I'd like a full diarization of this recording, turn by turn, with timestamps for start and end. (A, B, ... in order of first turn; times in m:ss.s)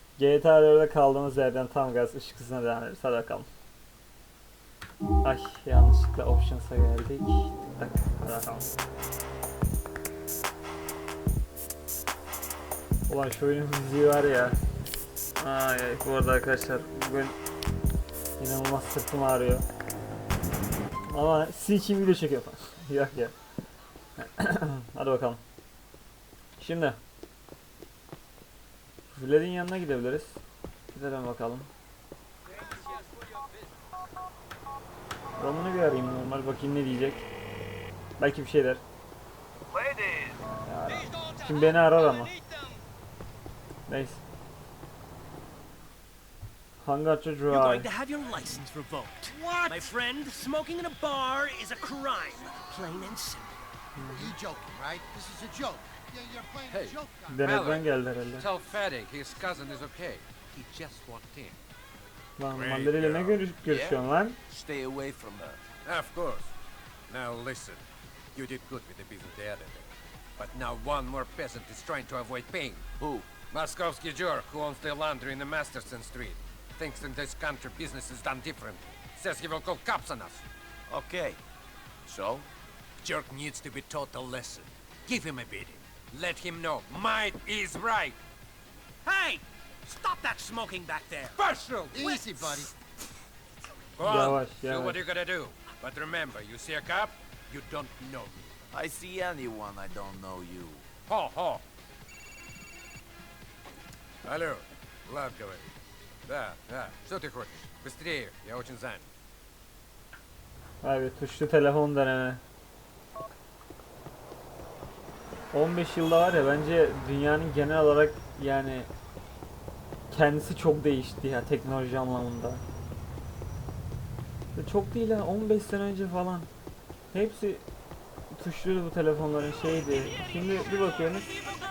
0:00.2-0:03.5 A
0:05.2-0:08.7 A
0:13.1-0:14.6 A
0:15.4-0:17.4 A
0:18.4-0:19.6 A
0:21.1-0:23.4 A
0:24.2-0:25.4 A
0:26.6-0:27.0 A
0:29.1-0:30.4 A
0:30.9-0:31.7 A
0:35.4-0:37.3 A
0:38.2-0:38.8 A
0:40.7-0:42.3 A
0:43.9-0:44.2 A
0:46.8-0:47.9 A
0:47.5-0:53.5 B
0:54.0-0:54.3 A
0:54.0-0:57.4 C
0:56.7-1:01.6 D
0:57.3-0:58.5 A
1:02.4-1:04.4 A
1:02.5-1:03.4 D
1:03.6-1:05.6 E
1:05.8-1:06.5 D
1:07.1-1:07.8 D
1:08.4-1:12.8 D
1:13.0-1:13.3 E
1:13.5-1:20.4 D
1:20.9-1:21.4 E
1:22.1-1:22.5 E
1:23.0-1:28.2 D
1:29.1-1:31.4 B
1:31.4-1:32.6 D
1:31.9-1:32.7 C
1:34.0-1:38.5 D
1:34.0-1:35.0 A
1:38.7-1:40.8 E
1:41.1-1:41.6 D
1:44.2-1:45.7 D
1:46.3-1:49.1 D
1:50.8-1:52.4 A
1:55.5-1:58.9 A
2:00.1-2:02.6 A
2:04.6-2:06.5 A
2:07.1-2:07.6 A
2:08.3-2:11.3 A